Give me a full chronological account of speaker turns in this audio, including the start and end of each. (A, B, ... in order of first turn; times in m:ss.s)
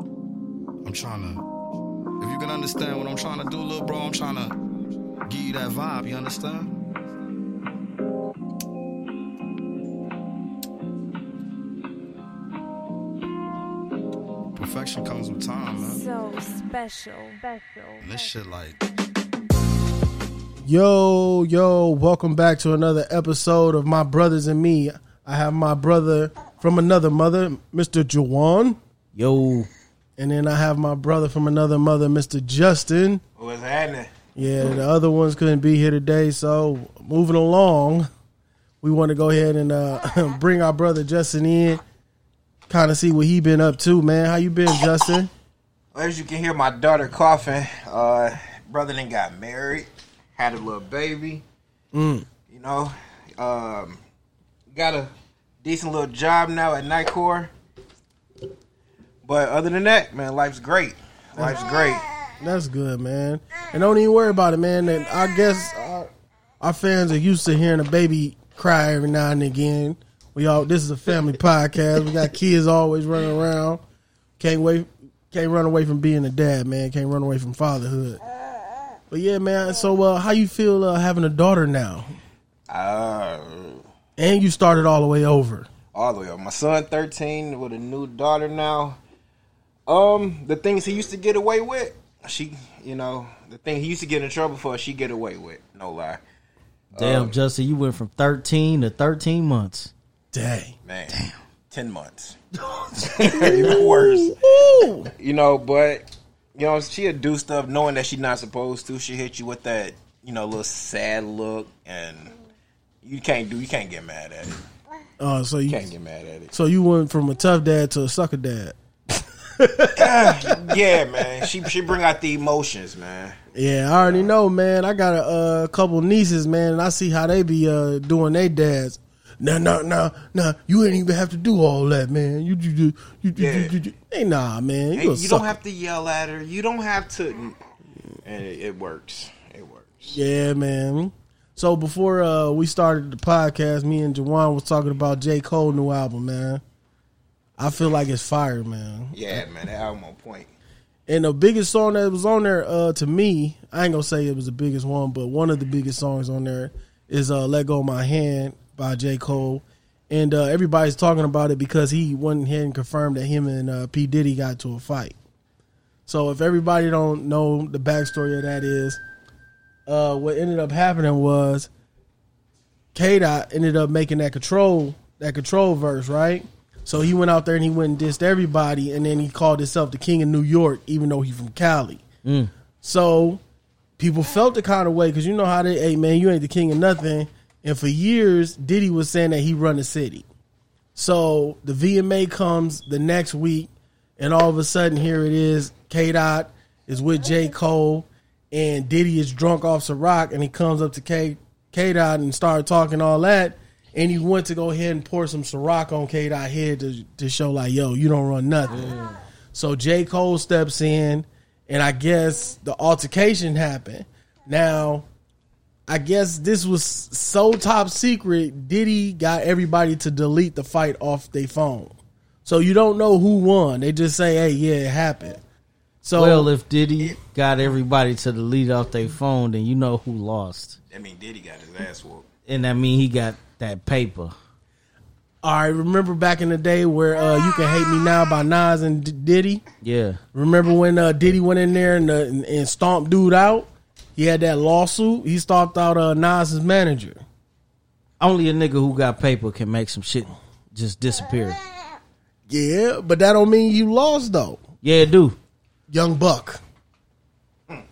0:00.8-0:01.4 A
0:02.2-0:04.6 A
0:05.2-0:06.7 A
0:14.5-0:16.0 A
0:15.8-0:18.4 B
0:18.0-0:18.8 A
0:20.6-0:28.8 C
0:29.1-0:29.7 D
0:30.2-0:33.2 C
0:33.4-0:34.1 E
0:34.4-0:38.1 C
0:38.8-0:41.8 C
0:42.7-0:45.3 C
0:45.9-0:51.4 E
0:51.9-0:52.3 C
0:52.5-0:54.0 E
0:54.7-0:55.1 E
0:55.6-0:57.5 E
0:59.2-1:02.0 E
1:02.4-1:06.1 C
1:06.6-1:13.8 C
1:14.4-1:18.2 C
1:19.1-1:22.1 C
1:22.7-1:23.8 E
1:24.2-1:25.7 C
1:25.9-1:29.0 E
1:29.9-1:36.2 E
1:36.9-1:37.4 E
1:36.9-1:39.9 D
1:40.3-1:40.7 C
1:40.8-1:41.2 E
1:41.1-1:41.4 D
1:41.7-1:42.4 E
1:42.5-1:43.6 D
1:43.0-1:52.3 E
1:43.3-1:45.1 C
1:53.0-1:54.6 E
1:55.2-1:55.9 C
1:55.7-1:56.5 E
1:56.5-2:01.5 C
2:00.0-2:03.4 E
2:03.5-2:15.4 C
2:13.4-2:13.8 E
2:14.9-2:17.6 E
2:18.2-2:20.2 E
2:20.1-2:26.6 C
2:27.6-2:29.4 C
2:29.1-2:30.5 E
2:31.1-2:45.1 C
2:46.0-2:49.0 C
2:49.9-2:51.7 C
2:52.9-3:02.0 C
3:02.2-3:02.5 D
3:02.8-3:03.4 C
3:04.0-3:10.2 C
3:10.9-3:29.0 C
3:28.7-3:29.2 D
3:29.5-3:35.0 C
3:35.9-3:45.4 C
3:46.0-3:46.5 C
3:46.1-3:50.8 D
3:50.9-3:52.3 E
3:52.5-3:54.3 D
3:55.4-3:59.6 C
3:59.8-4:00.2 D
4:00.3-4:07.2 C
4:08.2-4:11.6 D
4:12.5-4:14.6 C
4:14.8-4:15.4 D
4:15.9-4:16.6 C